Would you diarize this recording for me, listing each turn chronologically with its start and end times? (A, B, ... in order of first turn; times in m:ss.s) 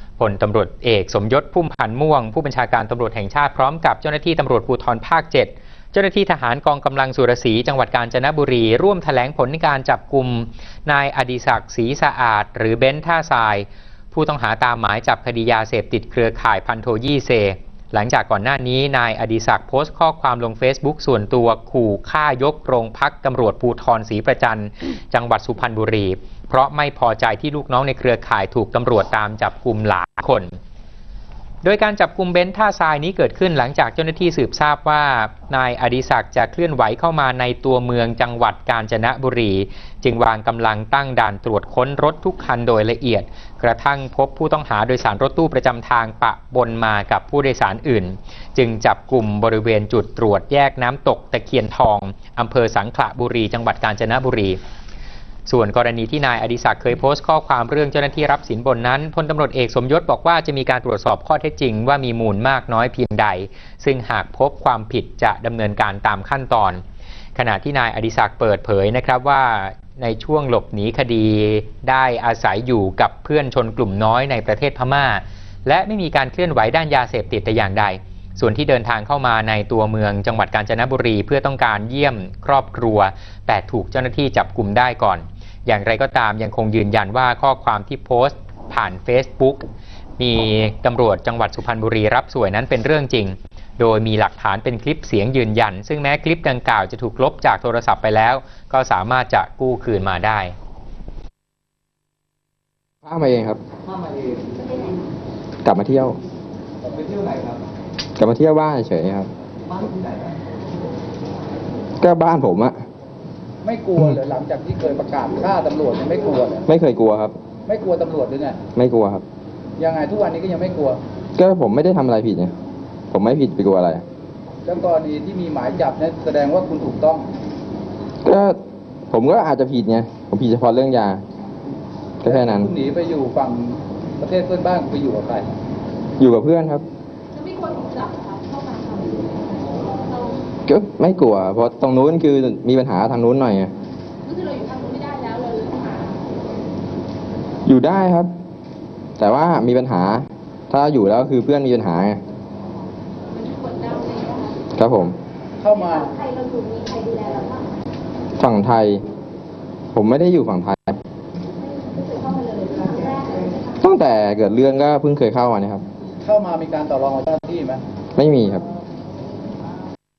0:00.2-0:30.6 A
0:31.6-0:54.6 A
0:55.5-1:06.8 A
1:07.4-1:29.7 A
1:30.2-1:40.6 A
1:43.0-1:43.6 B
1:45.6-1:46.2 B
1:46.8-1:47.2 C
1:48.2-1:49.3 B
1:52.0-1:52.8 B
1:53.6-1:56.6 C
1:56.7-1:57.4 B
1:57.7-1:58.6 C
1:58.8-1:59.2 B
1:59.8-2:01.0 C
2:01.4-2:02.5 B
2:03.1-2:04.0 B
2:04.6-2:07.3 C
2:08.2-2:08.6 B
2:09.1-2:11.2 B
2:12.2-2:12.7 B
2:12.2-2:15.5 C
2:16.2-2:16.8 B
2:17.4-2:19.3 D
2:20.1-2:20.4 D
2:20.7-2:23.7 B
2:24.3-2:26.2 D
2:27.7-2:28.3 B
2:29.2-2:32.2 B
2:33.3-2:34.6 D
2:34.8-2:35.2 B
2:35.6-2:36.2 C
2:36.0-2:37.7 D
2:38.4-2:39.0 B
2:39.9-2:41.0 B
2:42.0-2:43.6 D
2:43.8-2:45.8 B
2:46.2-2:47.8 C
2:48.2-2:48.6 B